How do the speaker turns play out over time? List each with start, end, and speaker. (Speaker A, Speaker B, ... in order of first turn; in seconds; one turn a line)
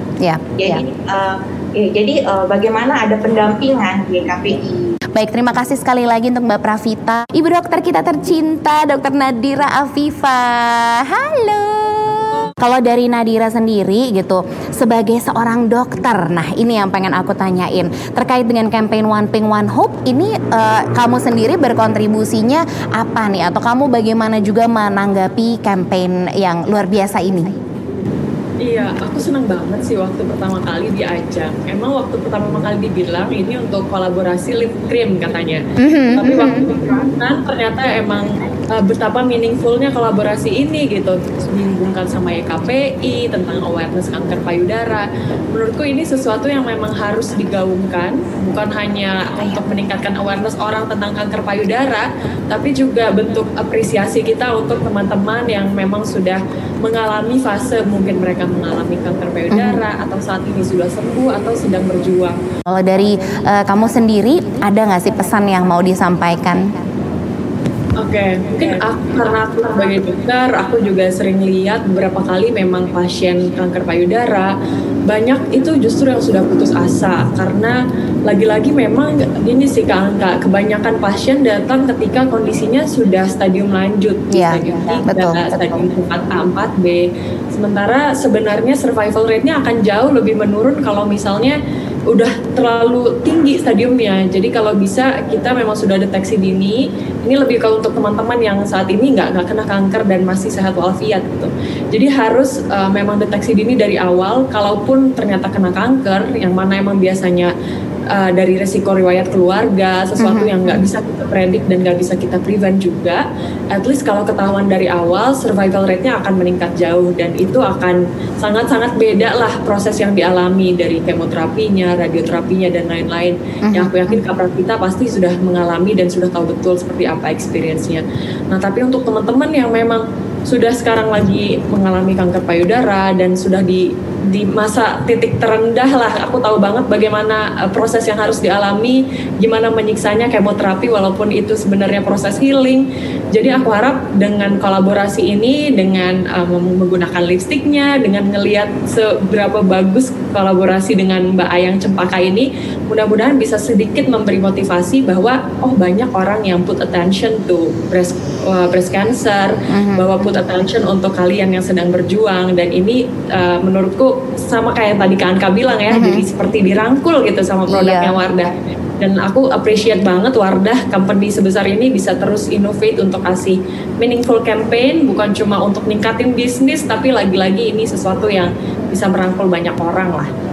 Speaker A: 0.2-0.8
Speaker B: 0.6-4.9
Speaker A: 5.1-27.6
Speaker C: 28.6-35.6
Speaker A: 35.8-36.7
Speaker C: 36.2-38.3
Speaker C: 38.8-62.3
Speaker A: 59.5-59.8
Speaker A: 62.7-66.7
Speaker C: 68.0-74.5
Speaker C: 75.1-77.8
Speaker C: 78.3-91.5
Speaker A: 84.3-85.8
Speaker C: 92.1-107.5
Speaker C: 108.2-113.2
Speaker A: 110.2-110.8
Speaker C: 113.7-133.8
Speaker A: 123.7-124.2
Speaker C: 134.3-168.5
Speaker A: 159.7-160.4
Speaker A: 165.9-166.2
Speaker A: 167.7-168.2
Speaker C: 169.0-180.3